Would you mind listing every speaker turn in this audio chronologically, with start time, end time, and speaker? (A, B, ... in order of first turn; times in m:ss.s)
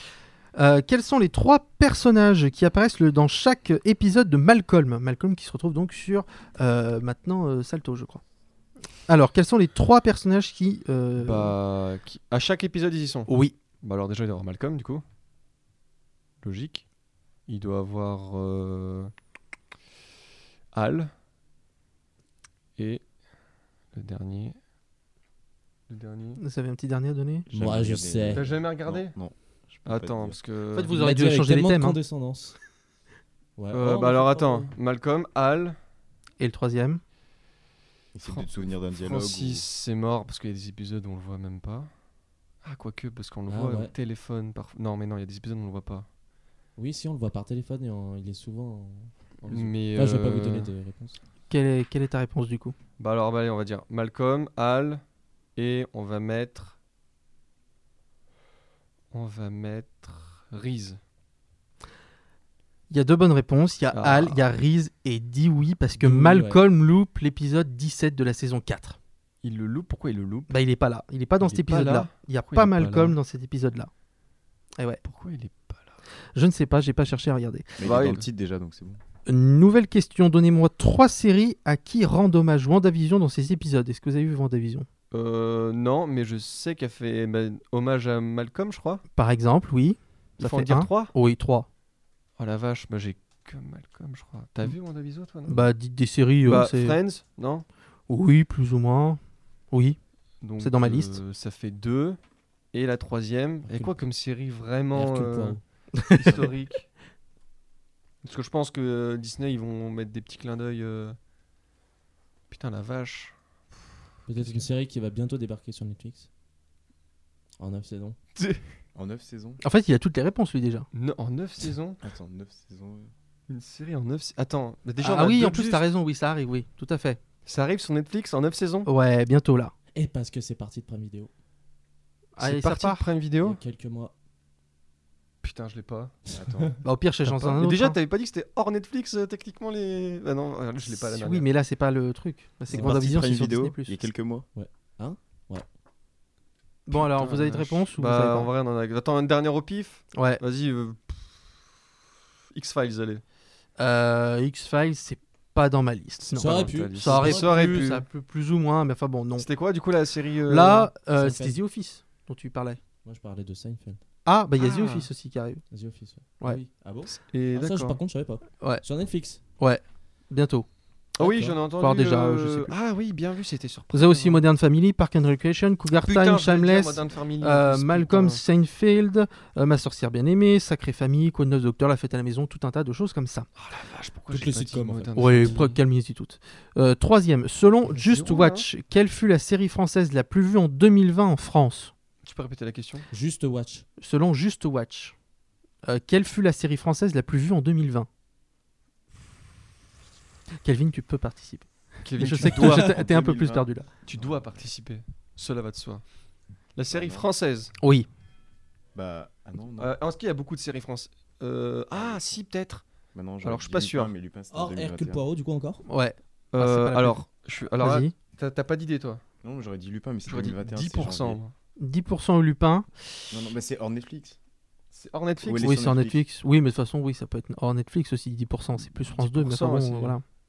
0:00.6-0:08.2 A
0:09.1-0:11.6 A
0:11.2-0:13.3 B
0:13.3-0:13.5 A
0:13.8-0:15.0 B
0:16.4-0:16.9 B
0:17.5-0:19.1 B
0:20.7-0:21.1 B
0:22.8-0:23.1 B
0:23.9-0:24.6 B
0:25.9-0:26.4 B
0:26.4-0:27.5 A
0:27.5-0:30.4 C
0:27.5-0:28.5 D
0:28.3-0:29.2 B
0:29.8-0:31.0 B
0:30.7-0:32.0 A
0:30.9-0:32.6 D
0:33.6-0:34.8 D
0:33.7-0:35.8 B
0:36.4-0:37.0 A
0:38.1-0:39.7 C
0:38.3-0:41.9 B
0:42.6-0:46.1 B
0:43.5-0:43.9 D
0:46.8-0:51.2 D
0:49.5-0:50.7 B
0:51.5-0:52.8 A
0:53.0-0:55.0 B
0:55.5-0:56.8 B
0:59.1-1:01.0 B
1:02.9-1:09.0 A
1:03.9-1:04.4 B
1:06.0-1:06.6 D
1:09.4-1:10.5 B
1:10.5-1:13.9 A
1:11.4-1:13.2 B
1:14.8-1:15.0 A
1:15.0-1:16.0 B
1:16.4-1:17.8 A
1:17.8-1:19.0 C
1:17.8-1:18.3 B
1:19.3-1:24.9 A
1:25.1-1:29.0 B
1:29.1-1:31.7 A
1:30.4-1:31.1 B
1:32.4-1:35.7 B
1:35.5-1:37.0 A
1:36.4-1:37.7 B
1:38.1-1:39.2 A
1:39.7-1:40.0 A
1:40.4-1:42.2 B
1:40.6-1:41.2 A
1:42.7-1:46.9 B
1:43.6-1:44.1 D
1:44.9-1:45.6 D
1:48.2-1:51.2 B
1:52.5-1:53.4 B
1:54.3-1:56.3 D
1:54.4-1:54.6 B
1:57.6-1:58.2 D
1:58.4-1:58.6 B
1:58.9-1:59.6 C
1:59.6-2:00.9 A
2:00.9-2:02.0 B
2:02.0-2:03.1 C
2:03.5-2:05.8 B
2:05.0-2:07.2 A
2:07.5-2:08.9 B
2:08.9-2:09.7 A
2:09.9-2:11.3 D
2:12.4-2:13.1 A
2:12.4-2:13.6 B
2:13.4-2:14.1 D
2:15.4-2:16.2 B
2:16.3-2:16.8 C
2:16.4-2:16.7 D
2:16.8-2:18.0 A
2:17.2-2:21.5 B
2:20.9-2:24.0 A
2:22.7-2:23.0 D
2:22.7-2:24.5 C
2:24.5-2:25.6 D
2:26.9-2:28.5 A
2:26.9-2:31.6 B
2:30.1-2:30.4 A
2:32.5-2:33.2 B
2:33.8-2:39.5 A
2:36.2-2:38.1 B
2:36.3-2:37.8 D
2:39.4-2:41.0 B
2:40.5-2:42.8 A
2:41.1-2:41.6 D
2:43.0-2:44.0 D
2:44.2-2:45.6 A
2:44.6-2:45.1 B
2:45.7-2:49.4 D
2:47.3-2:48.0 B
2:49.5-2:50.7 A
2:51.2-2:54.4 B
2:51.2-2:51.6 D
2:51.8-2:52.7 A
2:53.9-3:03.5 A
2:55.9-2:58.4 B
3:03.6-3:05.8 B
3:04.3-3:05.7 D
3:05.2-3:11.9 A
3:07.9-3:08.7 B
3:12.2-3:13.1 B
3:13.1-3:13.9 D
3:14.0-3:15.2 A
3:15.8-3:18.1 A
3:20.6-3:23.9 A
3:22.0-3:23.0 B
3:22.4-3:24.6 C
3:24.0-3:26.1 B
3:26.7-3:27.7 B
3:26.9-3:27.3 C
3:27.8-3:28.1 A
3:28.9-3:30.0 C
3:29.8-3:34.2 B
3:31.9-3:32.4 C
3:33.1-3:35.3 C
3:34.5-3:35.8 D
3:35.9-3:38.1 A
3:36.5-3:39.2 B
3:39.4-3:41.4 C
3:40.2-3:41.5 B
3:41.8-3:42.9 A
3:43.3-3:44.4 C
3:44.9-3:45.7 B
3:45.4-3:46.2 C
3:45.6-3:50.2 A
3:49.2-3:50.2 B